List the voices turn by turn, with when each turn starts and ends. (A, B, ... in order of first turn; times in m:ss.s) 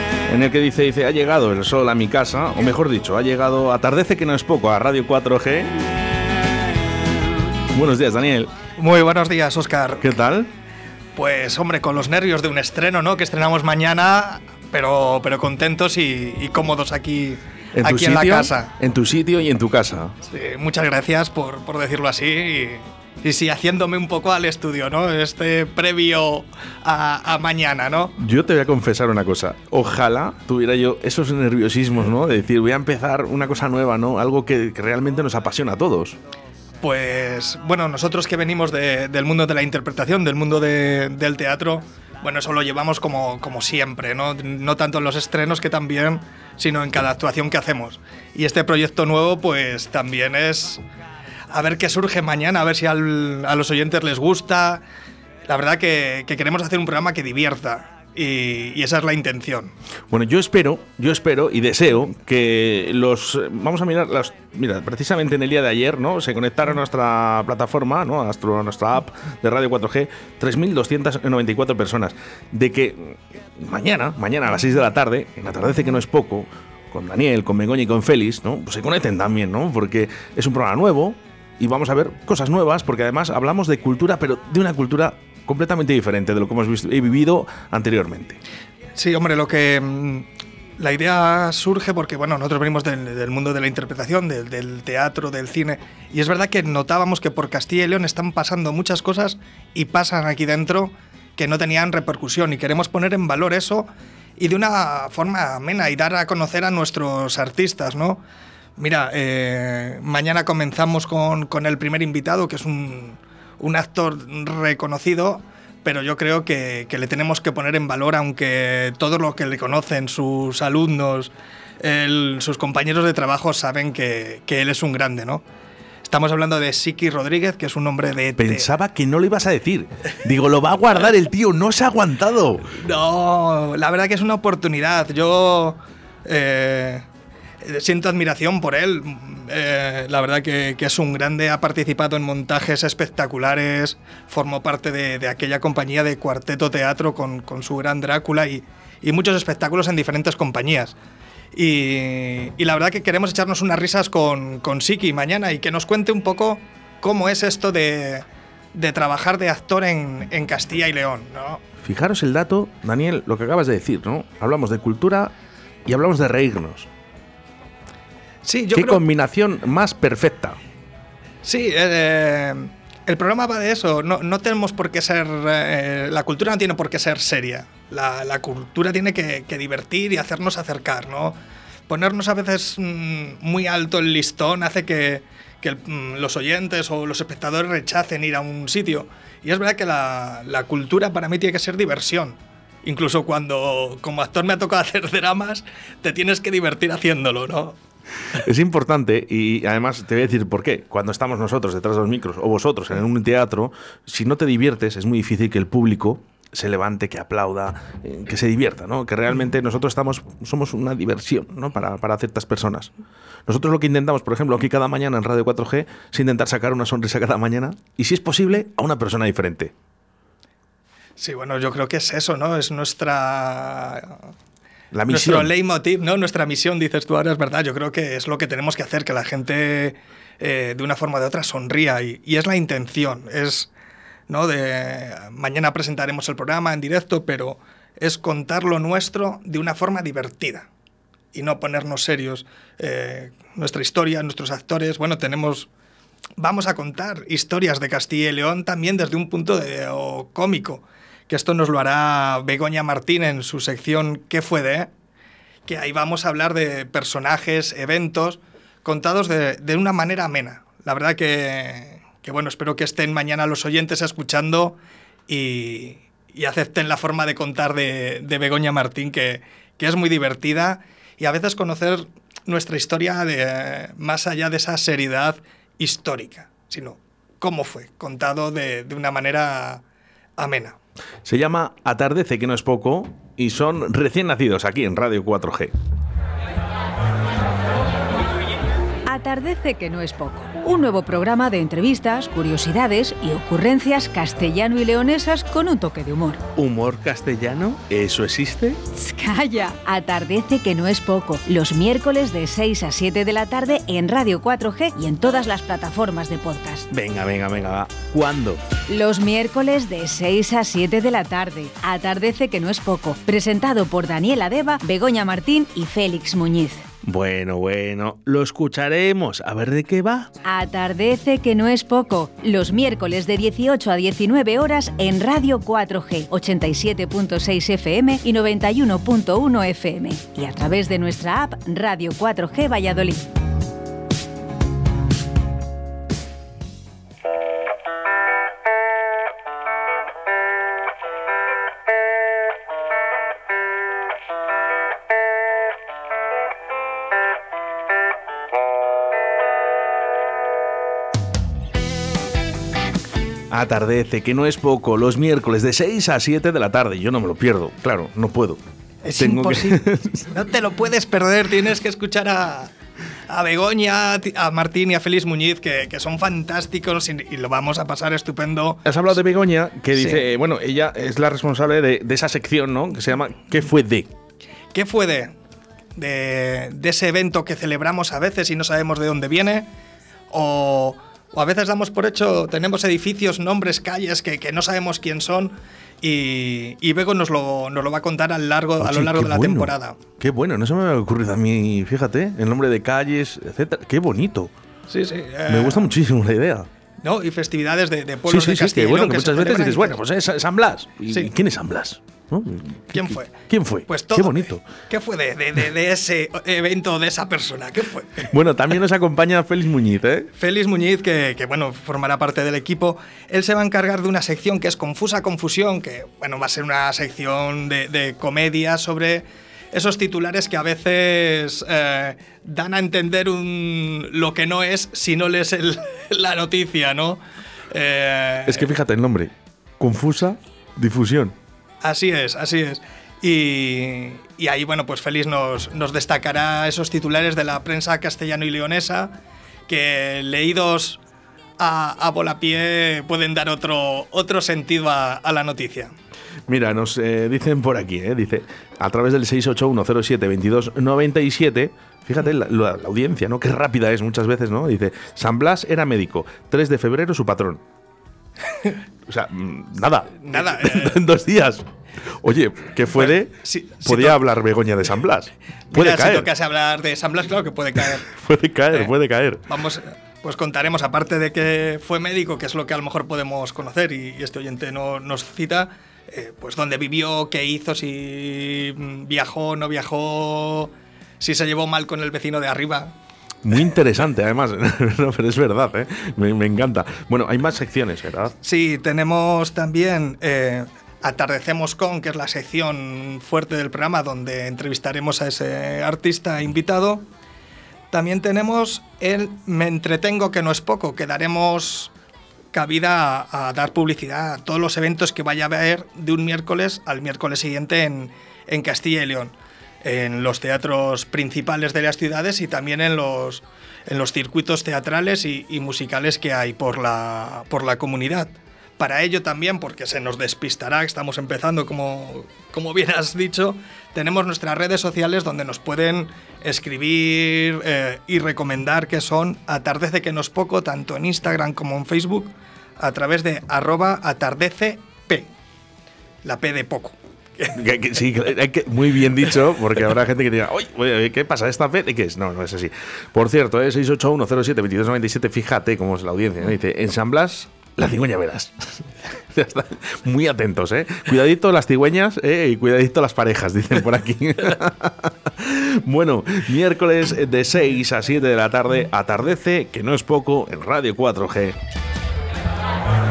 0:00.3-0:05.9 A
0:07.7-0:08.5 A
0:08.8-0:10.2 B
0:10.0-0:10.5 A
0:11.2-0:18.7 B
0:17.7-0:20.1 A
0:20.2-0:28.2 B
0:28.2-0:36.2 A
0:36.8-0:50.8 B
0:51.5-0:54.8 B
0:55.5-0:59.7 B
1:00.1-1:28.4 A
1:29.0-1:48.2 B
1:48.8-2:05.4 B
2:06.0-2:08.7 B
2:08.4-2:12.8 A
2:12.8-2:17.0 B
2:17.6-2:31.0 B
2:31.5-2:41.6 B
2:41.8-2:45.3 A
2:45.8-2:46.9 A
2:48.4-2:49.0 B
2:48.7-2:50.6 A
2:51.4-3:17.8 B
3:18.3-3:32.9 A
3:33.5-3:39.7 A
3:41.2-3:44.2 B
3:44.9-3:45.5 A
3:45.1-3:53.7 B
3:54.3-4:00.7 B
4:01.3-4:05.7 B
4:06.4-4:14.9 B
4:15.6-4:24.8 B
4:25.3-4:39.8 B
4:40.4-4:40.8 B
4:41.2-4:45.7 A
4:49.1-4:56.4 C
4:56.6-4:58.8 A
4:58.9-5:06.9 C
5:06.9-5:08.6 A
5:08.9-5:16.8 C
5:17.0-5:20.3 A
5:20.4-5:33.3 C
5:53.5-5:58.6 A
5:59.0-6:02.7 B
5:59.2-6:00.2 A
6:03.3-6:08.8 B
6:08.8-6:14.1 A
6:09.9-6:10.2 B
6:14.7-6:15.3 B
6:16.0-6:19.7 B
6:20.3-6:30.0 B
6:28.8-6:34.5 A
6:34.9-6:35.9 B
6:35.5-6:36.7 A
6:37.0-6:40.0 B
6:38.3-6:44.6 A
6:42.9-6:48.3 B
6:48.3-6:50.3 A
6:50.4-7:08.6 B
7:08.5-7:11.3 A
7:11.8-7:19.1 B
7:19.7-7:21.0 B
7:21.6-7:25.9 B
7:26.5-7:37.6 A
7:39.0-7:46.3 A
7:40.2-7:41.0 B
7:43.0-7:44.2 B
7:45.7-7:48.1 B
7:48.0-7:49.4 A
7:49.5-8:02.9 B
8:03.4-8:08.3 A
8:08.4-8:17.0 B
8:17.9-8:21.9 B
8:22.5-8:55.3 B
8:56.2-8:57.5 B
8:57.5-9:21.6 A